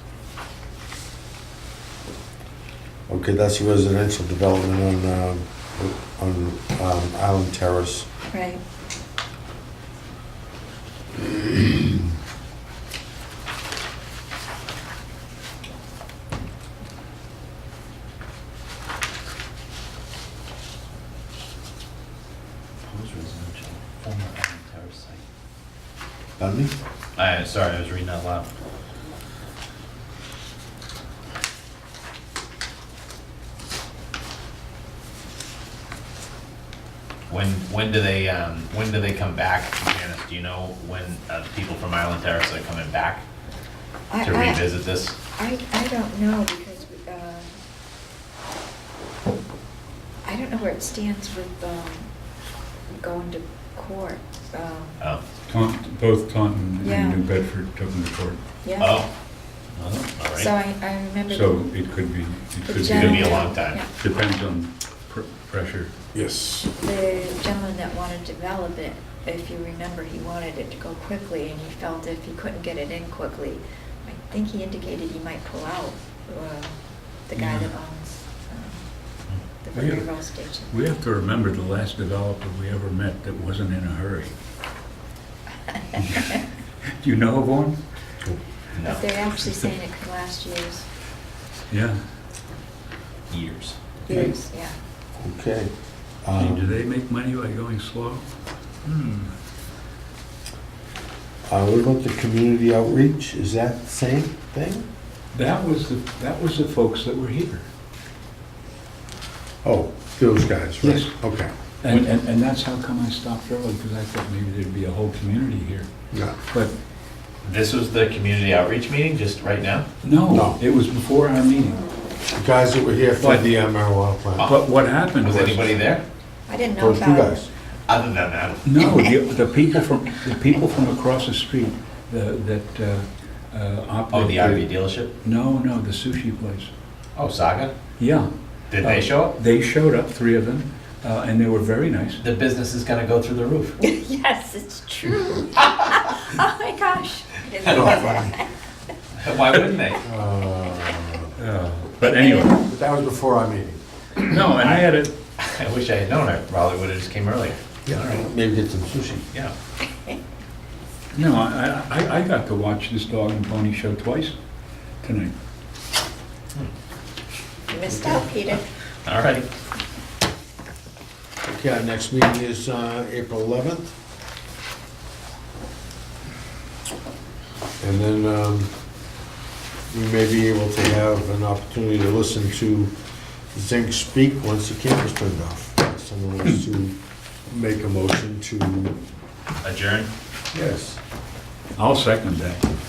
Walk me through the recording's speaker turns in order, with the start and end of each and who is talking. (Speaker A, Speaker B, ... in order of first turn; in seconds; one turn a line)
Speaker A: 3.1-8.1
Speaker B: 8.3-8.6
Speaker A: 11.2-11.9
Speaker C: 22.8-25.2
Speaker A: 26.4-26.7
Speaker C: 27.1-28.5
Speaker C: 37.3-43.2
Speaker B: 44.1-44.6
Speaker C: 44.2-45.2
Speaker B: 45.4-47.5
Speaker B: 50.2-52.1
Speaker B: 52.9-55.0
Speaker D: 55.5-58.4
Speaker B: 56.8-57.2
Speaker B: 58.6-59.0
Speaker C: 58.8-59.1
Speaker C: 59.8-60.5
Speaker B: 60.3-61.6
Speaker D: 61.3-63.4
Speaker B: 62.6-63.9
Speaker C: 62.9-63.8
Speaker D: 64.0-65.9
Speaker A: 66.1-66.6
Speaker B: 66.6-78.8
Speaker D: 77.4-77.7
Speaker B: 79.6-80.8
Speaker D: 79.7-80.1
Speaker D: 80.7-84.3
Speaker B: 85.7-86.2
Speaker D: 86.0-86.3
Speaker D: 87.0-87.8
Speaker C: 88.7-89.0
Speaker B: 88.8-90.8
Speaker D: 91.7-92.0
Speaker C: 93.3-94.0
Speaker B: 94.0-94.8
Speaker A: 95.2-95.7
Speaker A: 96.2-96.8
Speaker D: 96.4-98.3
Speaker D: 98.8-99.3
Speaker A: 101.5-104.8
Speaker D: 105.3-107.7
Speaker A: 109.6-111.5
Speaker D: 111.8-115.9
Speaker A: 116.1-116.3
Speaker C: 117.4-119.8
Speaker D: 120.0-121.9
Speaker A: 120.3-120.6
Speaker A: 122.3-124.5
Speaker D: 124.5-125.6
Speaker C: 125.2-126.0
Speaker B: 126.5-127.5
Speaker A: 126.8-127.5
Speaker C: 127.9-128.6
Speaker D: 128.6-134.6
Speaker C: 134.1-135.1
Speaker D: 135.2-136.7
Speaker C: 137.2-137.7
Speaker D: 138.0-142.2
Speaker C: 138.7-139.3
Speaker C: 142.2-143.8
Speaker B: 143.8-148.5
Speaker A: 147.6-148.4
Speaker C: 149.2-150.0
Speaker A: 150.0-151.3
Speaker D: 151.4-152.6
Speaker B: 152.0-152.6
Speaker A: 152.6-153.8
Speaker D: 154.3-155.1
Speaker C: 155.4-158.2
Speaker A: 157.9-159.2
Speaker D: 161.1-164.3
Speaker D: 165.0-165.3
Speaker B: 167.7-168.6
Speaker A: 167.9-168.2
Speaker C: 169.0-169.5
Speaker A: 171.4-173.9
Speaker A: 177.8-178.7
Speaker A: 179.9-182.9
Speaker A: 183.5-187.0
Speaker A: 187.5-189.0
Speaker C: 189.6-190.1
Speaker A: 190.5-191.0
Speaker D: 191.8-192.6